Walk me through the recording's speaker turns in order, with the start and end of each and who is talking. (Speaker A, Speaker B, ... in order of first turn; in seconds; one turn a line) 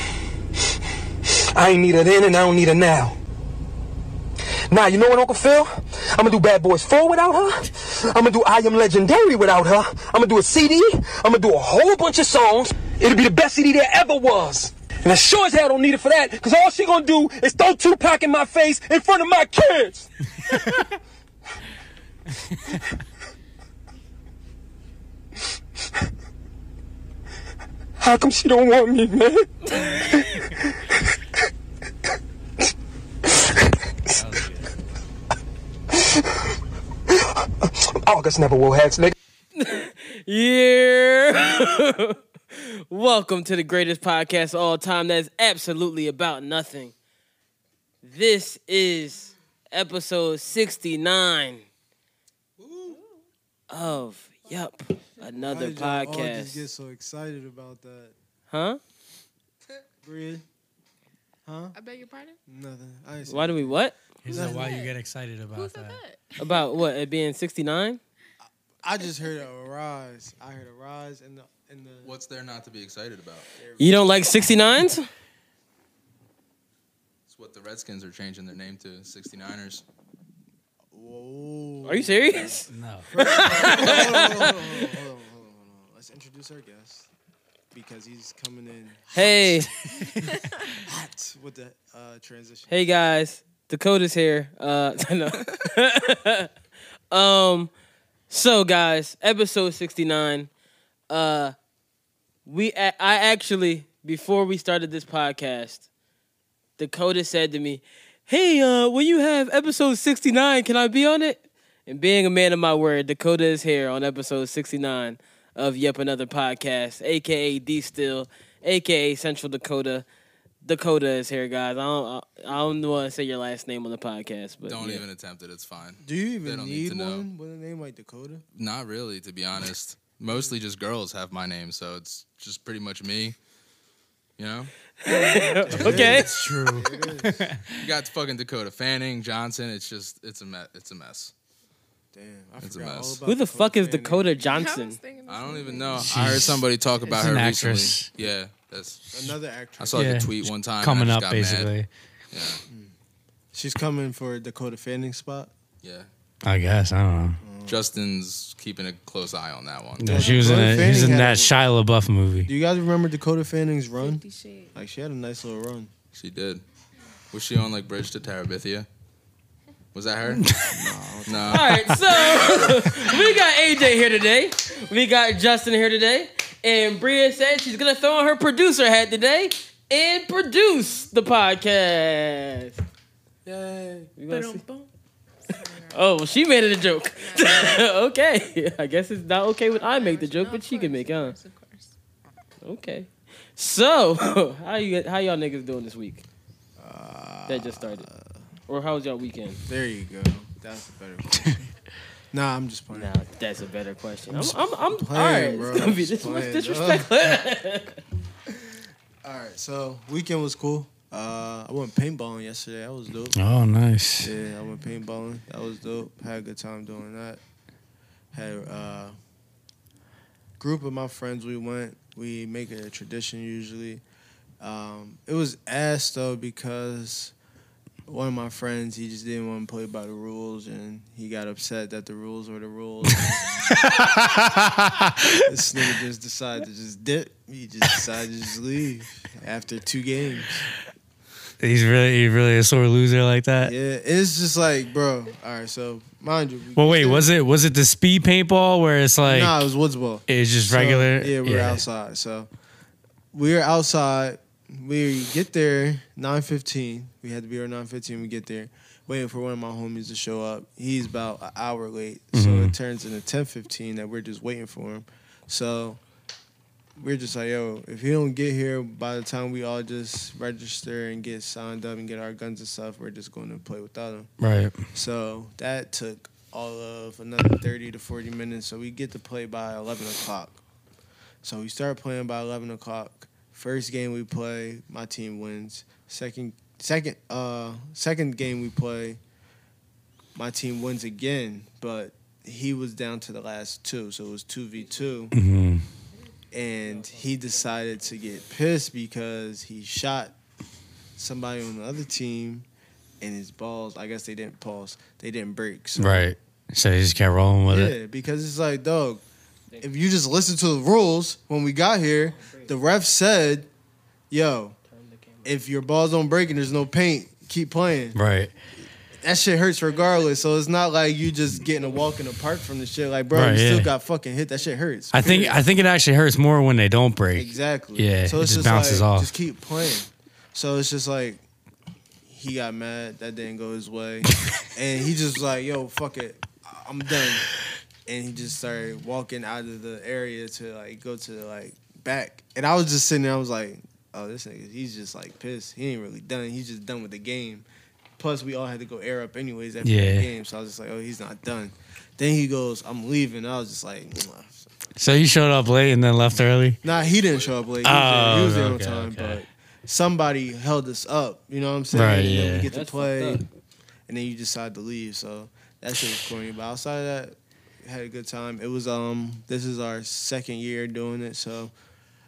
Speaker A: 1.5-3.2
Speaker A: 4.7-20.1
Speaker A: 28.0-30.3
Speaker B: 34.1-34.7
Speaker A: 37.7-39.1
Speaker C: 39.5-46.9
Speaker C: 48.0-51.6
Speaker D: 52.6-52.9
Speaker C: 53.7-56.6
Speaker D: 55.4-58.1
Speaker C: 58.5-58.8
Speaker D: 60.0-60.4
Speaker D: 61.5-61.8
Speaker E: 61.7-62.4
Speaker D: 62.5-64.7
Speaker C: 63.3-64.0
Speaker B: 64.2-66.0
Speaker E: 64.3-65.0
Speaker E: 65.5-66.7
Speaker C: 66.4-68.0
Speaker D: 68.8-72.1
Speaker E: 69.0-69.5
Speaker F: 72.0-73.5
Speaker D: 73.6-74.1
Speaker C: 73.8-75.1
Speaker F: 77.3-79.8
Speaker D: 80.9-87.1
Speaker C: 81.8-84.9
Speaker B: 82.7-83.4
Speaker D: 87.7-89.7
Speaker C: 89.1-89.7
Speaker D: 90.8-92.7
Speaker C: 92.7-96.5
Speaker C: 97.1-97.7
Speaker C: 98.3-100.5
Speaker C: 101.1-101.5
Speaker C: 102.5-105.9
Speaker C: 106.8-120.0
Speaker C: 120.6-125.0
Speaker F: 124.7-127.3
Speaker D: 126.0-128.4
Speaker F: 128.6-133.4
Speaker F: 134.4-134.7
Speaker C: 135.0-136.3
Speaker D: 135.6-137.5
Speaker F: 135.7-136.2
Speaker B: 136.5-137.8
Speaker F: 137.8-141.3
Speaker D: 142.1-144.3
Speaker F: 142.6-143.2
Speaker C: 143.2-145.0
Speaker E: 144.4-146.6
Speaker F: 145.2-149.1
Speaker B: 146.0-148.1
Speaker D: 149.1-150.2
Speaker F: 149.8-151.7
Speaker B: 149.9-151.9
Speaker F: 152.3-152.6
Speaker D: 153.5-155.5
Speaker F: 155.8-156.1
Speaker B: 156.4-157.4
Speaker D: 157.4-157.8
Speaker F: 157.7-160.3
Speaker B: 160.0-162.5
Speaker D: 160.1-161.5
Speaker E: 160.2-160.6
Speaker D: 162.4-164.2
Speaker E: 163.9-164.8
Speaker D: 164.8-165.9
Speaker F: 166.1-166.6
Speaker F: 167.3-168.9
Speaker F: 169.9-170.4
Speaker B: 170.4-170.7
Speaker D: 170.7-171.7
Speaker F: 171.3-171.7
Speaker C: 171.5-182.8
Speaker C: 184.1-184.6
Speaker E: 184.3-184.9
Speaker E: 185.4-186.2
Speaker C: 185.9-191.4
Speaker E: 187.1-187.9
Speaker E: 189.6-191.9
Speaker C: 192.6-196.2
Speaker D: 196.8-198.4
Speaker C: 197.5-198.1
Speaker C: 198.7-199.6
Speaker D: 199.7-201.7
Speaker D: 202.3-203.1
Speaker C: 202.9-208.0
Speaker D: 204.3-207.2
Speaker D: 208.6-213.4
Speaker B: 213.4-214.3
Speaker D: 214.2-217.4
Speaker D: 218.3-219.2
Speaker D: 220.6-224.0
Speaker D: 224.6-227.3
Speaker D: 228.1-233.5
Speaker B: 233.2-235.5
Speaker D: 235.4-240.7
Speaker B: 241.6-243.7
Speaker D: 243.6-247.3
Speaker B: 246.8-249.6
Speaker D: 249.2-252.5
Speaker B: 250.3-251.8
Speaker D: 253.3-266.0
Speaker B: 262.3-262.8
Speaker D: 267.0-274.3
Speaker B: 274.4-274.8
Speaker D: 274.9-280.6
Speaker D: 281.4-289.2
Speaker D: 290.4-295.4
Speaker C: 294.8-295.1
Speaker B: 295.3-295.9
Speaker D: 296.5-300.4
Speaker C: 296.8-298.5
Speaker D: 301.2-302.7
Speaker D: 303.2-306.3
Speaker B: 306.0-307.9
Speaker D: 307.7-309.2
Speaker D: 309.8-313.7
Speaker C: 312.2-312.8
Speaker D: 314.3-314.8
Speaker C: 314.8-315.6
Speaker D: 315.4-318.2
Speaker B: 318.2-318.5
Speaker D: 319.2-325.6
Speaker C: 321.8-322.1
Speaker B: 323.3-323.9
Speaker B: 325.1-329.3
Speaker D: 327.4-331.4
Speaker D: 332.3-337.5
Speaker D: 338.1-347.7
Speaker D: 348.2-354.7
Speaker B: 349.8-350.3
Speaker B: 355.0-356.8
Speaker D: 356.8-363.4
Speaker F: 356.9-357.6
Speaker B: 357.8-359.4
Speaker B: 361.9-362.7
Speaker C: 362.4-363.4
Speaker D: 364.1-371.7